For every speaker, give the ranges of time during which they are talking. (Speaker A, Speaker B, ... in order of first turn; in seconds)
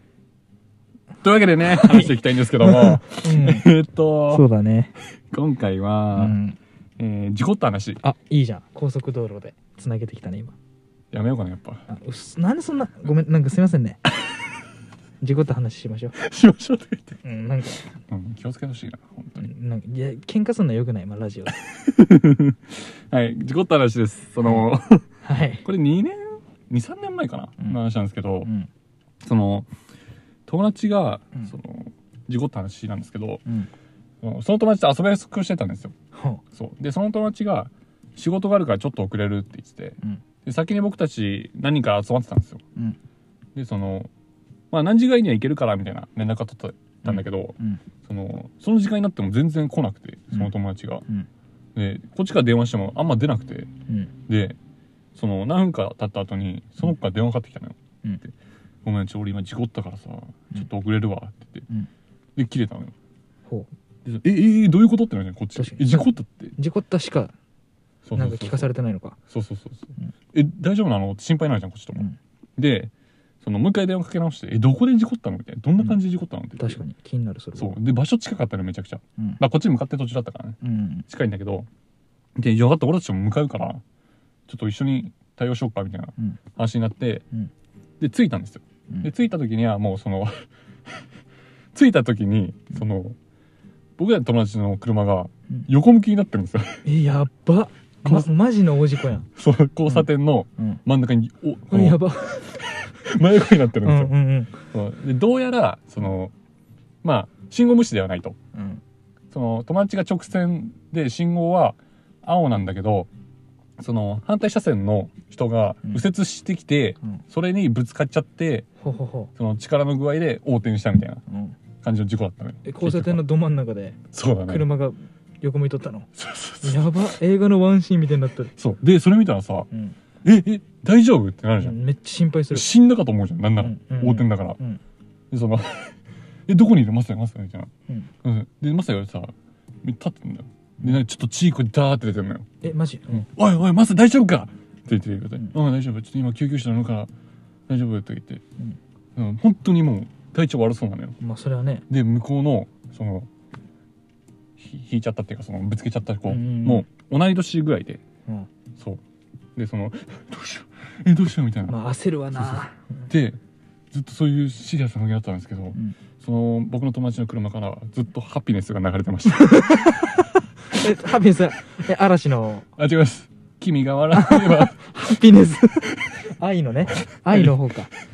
Speaker A: 1.2-4.4, 5.3-6.4, 7.0-8.0, 11.1-11.9, 16.2-17.2, 18.0-19.5, 21.7-25.1, 25.6-28.5, 29.2-29.7, 30.5-33.4, 34.2-35.9, 36.5-42.6, 43.5-44.1, 44.7-51.0, 51.8-53.7, 54.3-54.6, 55.1-58.3, 58.8-61.7, 62.4-62.9, 64.0-66.5, 68.0-68.7, 69.3-72.9, 73.4-76.8, 77.6-81.7, 82.4-83.8, 84.5-87.3, 88.0-90.5, 91.7-93.2, 94.0-96.8, 99.3-104.1, 104.7-106.3, 107.0-108.4, 109.3-113.1, 113.8-118.7, 119.3-121.2, 121.8-123.2, 124.1-124.7, 126.2-127.1, 128.6-129.7, 130.2-131.8, 132.5-134.6, 135.3-136.0, 136.5-137.7, 138.2-147.1, 147.7-148.4, 149.2-151.2, 151.9-153.3, 154.6-158.0, 159.6-161.8, 162.3-163.4, 163.9-169.8, 172.8-175.2, 175.9-176.2
Speaker B: 1.6-3.7, 4.3-4.9, 6.2-6.6, 8.0-10.6, 11.9-14.0, 15.2-16.1, 17.2-17.9, 19.4-21.6, 25.2-25.6, 36.1-36.4, 47.0-47.8, 65.6-67.3, 68.2-69.2, 76.6-77.8, 80.6-81.0, 96.8-99.3, 101.7-102.6, 103.8-104.6, 108.5-108.8, 118.8-119.3, 121.3-121.6, 122.7-126.1, 126.6-128.5, 129.7-130.0, 131.6-132.7, 133.6-134.8, 142.6-143.3, 151.2-151.9, 156.3-156.8, 161.7-162.8, 169.4-170.1, 170.7-172.7, 174.1-177.9